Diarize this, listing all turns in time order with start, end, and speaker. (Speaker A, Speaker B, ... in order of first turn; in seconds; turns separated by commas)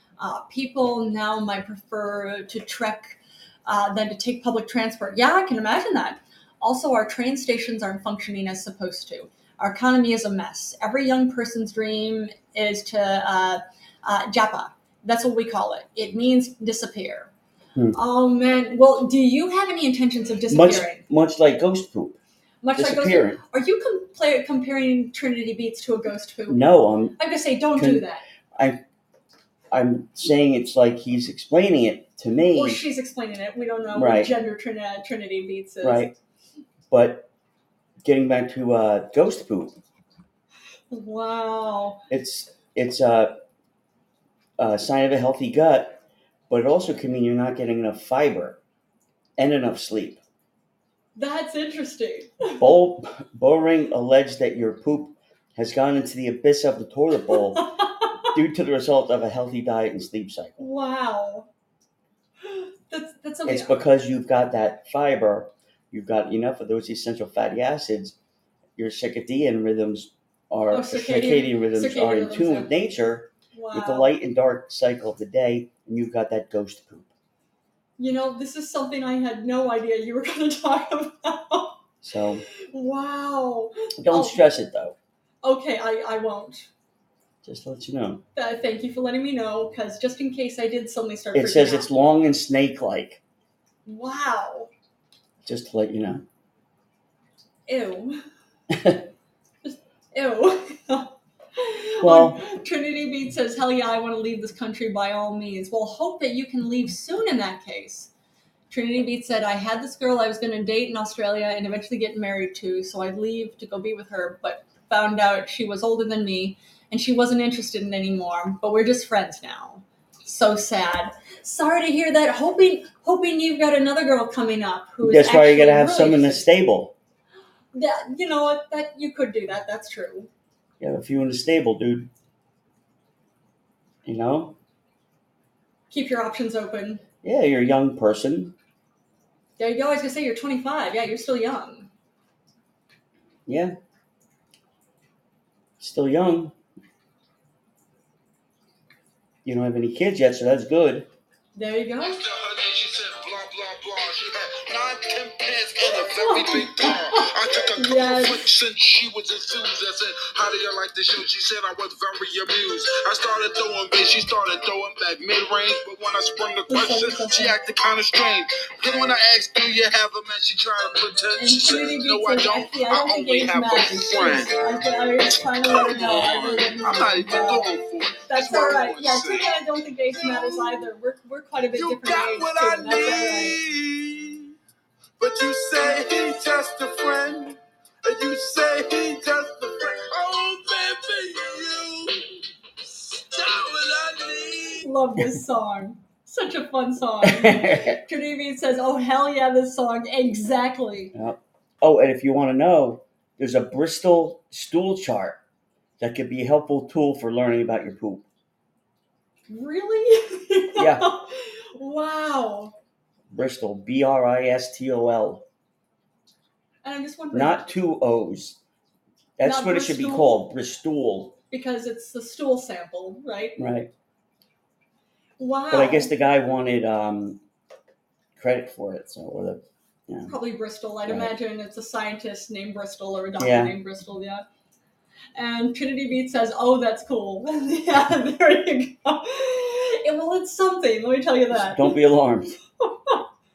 Speaker A: 0.2-17.3, Speaker A: 17.9-21.0, Speaker B: 20.5-22.2, Speaker A: 22.6-26.6, Speaker B: 22.8-23.4, Speaker B: 26.5-27.2, Speaker A: 27.2-28.2, Speaker B: 27.7-28.0, Speaker B: 28.6-28.8, Speaker B: 29.7-32.8, Speaker A: 32.5-36.1, Speaker B: 33.9-34.3, Speaker B: 35.8-36.1, Speaker B: 36.9-37.3, Speaker B: 38.0-39.8, Speaker A: 40.9-42.0, Speaker B: 42.1-43.4, Speaker B: 44.6-48.6, Speaker B: 49.4-50.2, Speaker A: 51.2-52.7, Speaker B: 52.6-60.7, Speaker A: 57.6-58.0, Speaker A: 60.6-61.5, Speaker A: 62.4-63.8, Speaker B: 63.5-68.2, Speaker B: 68.8-77.1, Speaker A: 70.7-72.7, Speaker A: 73.5-74.2, Speaker A: 78.0-81.8, Speaker B: 82.0-82.4, Speaker A: 82.5-84.5, Speaker B: 84.0-85.0, Speaker A: 85.4-86.7, Speaker B: 87.4-88.2, Speaker A: 88.3-91.9, Speaker B: 91.3-93.2, Speaker A: 93.9-94.7, Speaker B: 95.4-96.2, Speaker A: 97.7-98.2, Speaker B: 98.7-99.0, Speaker A: 99.6-108.1, Speaker B: 102.0-102.4, Speaker A: 108.7-126.5, Speaker B: 125.0-126.9, Speaker A: 127.7-130.3, Speaker B: 130.8-132.1, Speaker B: 134.1-134.6, Speaker A: 135.9-137.0, Speaker B: 137.2-138.5, Speaker A: 139.6-141.9, Speaker B: 143.5-143.8, Speaker B: 145.8-146.5, Speaker B: 149.4-151.1, Speaker A: 151.6-152.2, Speaker C: 152.0-174.7, Speaker A: 155.9-158.5, Speaker A: 166.7-167.6, Speaker A: 171.4-177.7, Speaker C: 175.3-179.6, Speaker A: 178.3-183.6, Speaker C: 180.2-180.8, Speaker C: 181.7-184.5, Speaker C: 185.2-192.3, Speaker C: 192.8-194.9, Speaker A: 194.8-201.1, Speaker B: 197.2-198.0, Speaker B: 201.1-205.4, Speaker B: 206.0-208.2, Speaker A: 209.5-212.8, Speaker B: 210.8-211.1, Speaker B: 213.3-215.4, Speaker A: 216.8-217.6, Speaker B: 217.3-218.6, Speaker B: 219.4-221.4, Speaker A: 219.4-220.4, Speaker A: 221.5-223.6, Speaker B: 223.6-223.9, Speaker A: 225.4-226.1, Speaker B: 225.7-227.4, Speaker B: 228.4-230.3, Speaker A: 230.3-234.5, Speaker B: 231.1-231.3, Speaker B: 233.4-233.8, Speaker A: 235.3-242.0, Speaker B: 241.5-242.6, Speaker A: 242.8-243.2